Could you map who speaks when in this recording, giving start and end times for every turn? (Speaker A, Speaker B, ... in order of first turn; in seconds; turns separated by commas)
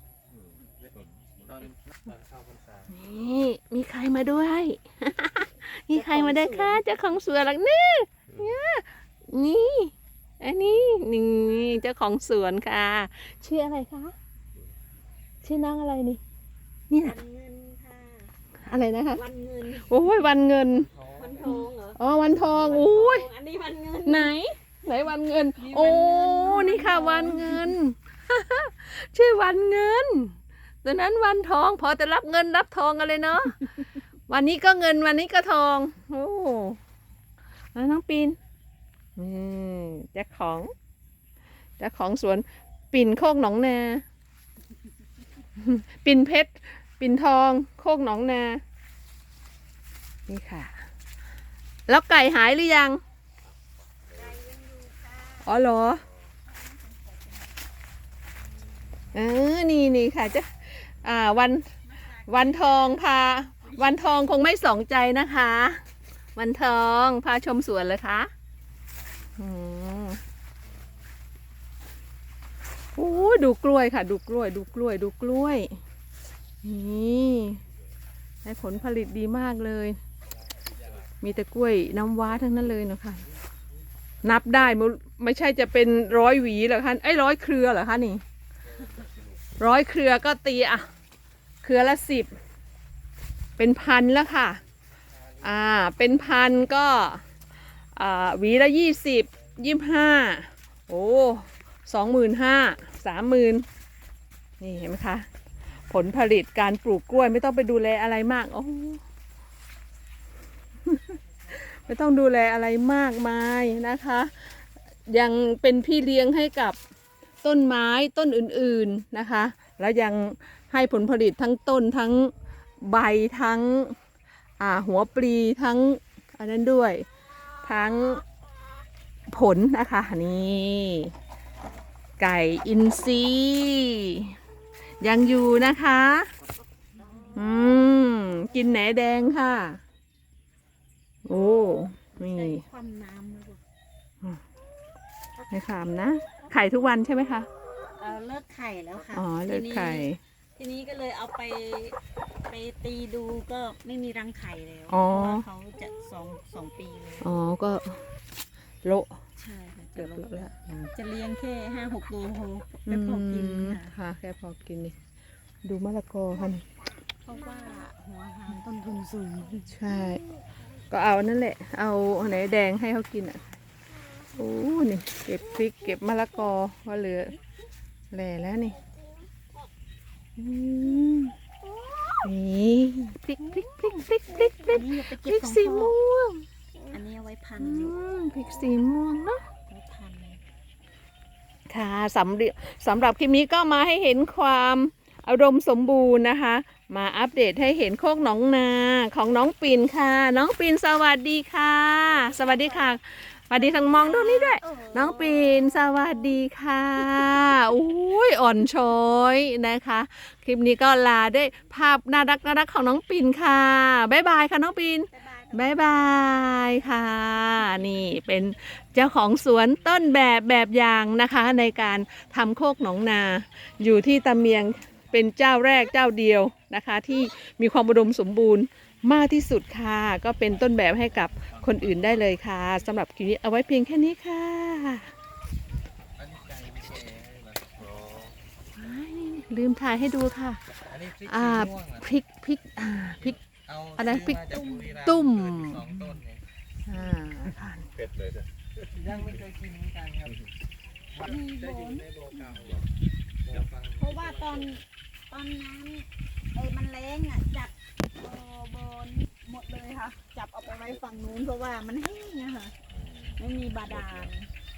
Speaker A: 0.3-1.4, Speaker B: 0.8-2.9, Speaker C: 2.9-14.1, Speaker D: 5.9-6.8, Speaker A: 10.7-11.0, Speaker C: 15.4-16.2, Speaker C: 16.9-17.1, Speaker D: 16.9-20.3, Speaker C: 18.6-19.2, Speaker C: 19.9-20.9, Speaker B: 20.7-21.6, Speaker D: 21.1-24.3, Speaker C: 21.4-23.3, Speaker C: 24.0-33.7, Speaker D: 25.6-27.8, Speaker C: 34.3-36.8, Speaker C: 37.8-38.4, Speaker C: 39.2-40.7, Speaker C: 41.8-44.0, Speaker C: 45.6-48.6, Speaker C: 50.3-50.9, Speaker C: 51.9-53.0, Speaker A: 54.1-54.4, Speaker D: 54.1-55.6, Speaker C: 55.4-56.0, Speaker D: 56.5-57.6, Speaker C: 59.1-61.7, Speaker D: 61.8-63.0, Speaker C: 62.2-65.8, Speaker D: 63.6-64.4, Speaker C: 66.3-68.3, Speaker B: 68.9-69.2, Speaker C: 69.4-70.2, Speaker C: 72.9-75.7, Speaker C: 76.6-77.6, Speaker C: 78.4-80.0, Speaker B: 80.5-81.0, Speaker C: 81.2-83.2, Speaker C: 84.2-88.2, Speaker C: 89.6-90.9, Speaker C: 91.6-92.3, Speaker C: 93.6-94.6, Speaker B: 95.0-96.5, Speaker C: 95.4-97.2, Speaker C: 97.9-103.6, Speaker C: 104.6-105.2, Speaker C: 105.9-109.0, Speaker C: 110.8-116.8, Speaker C: 117.4-124.0, Speaker C: 124.6-127.1, Speaker C: 127.6-128.2, Speaker C: 129.3-131.1, Speaker C: 132.2-134.3, Speaker C: 135.0-136.3, Speaker D: 136.9-137.6, Speaker C: 137.3-139.8, Speaker C: 141.2-142.6, Speaker D: 142.2-143.6, Speaker C: 145.5-147.5, Speaker D: 148.0-157.3, Speaker C: 149.1-150.2, Speaker C: 154.9-155.4, Speaker C: 157.2-158.1, Speaker C: 158.8-159.2, Speaker D: 159.3-163.9, Speaker C: 159.9-160.9, Speaker C: 162.8-164.9, Speaker C: 165.6-166.6, Speaker D: 167.2-169.8, Speaker C: 169.7-170.2, Speaker C: 170.9-173.4, Speaker C: 174.3-177.4, Speaker C: 178.1-178.8, Speaker C: 180.4-181.3, Speaker D: 181.6-182.3, Speaker C: 182.2-186.4, Speaker D: 184.3-185.9, Speaker D: 186.8-188.0, Speaker C: 187.6-189.4, Speaker D: 189.7-190.4, Speaker C: 191.7-235.1, Speaker D: 202.0-203.0, Speaker D: 203.5-206.2, Speaker D: 215.1-216.9, Speaker B: 236.2-237.7, Speaker A: 237.8-238.3, Speaker C: 238.8-240.6, Speaker B: 240.8-242.1, Speaker C: 241.2-243.4, Speaker B: 243.2-246.4, Speaker C: 244.0-244.4, Speaker D: 244.3-245.0, Speaker C: 245.0-246.2, Speaker C: 246.8-247.9, Speaker A: 247.9-249.2, Speaker B: 248.9-250.3, Speaker B: 251.1-252.8, Speaker D: 251.2-252.7, Speaker B: 253.4-254.8, Speaker D: 253.9-262.8, Speaker A: 262.9-264.3, Speaker D: 263.4-264.5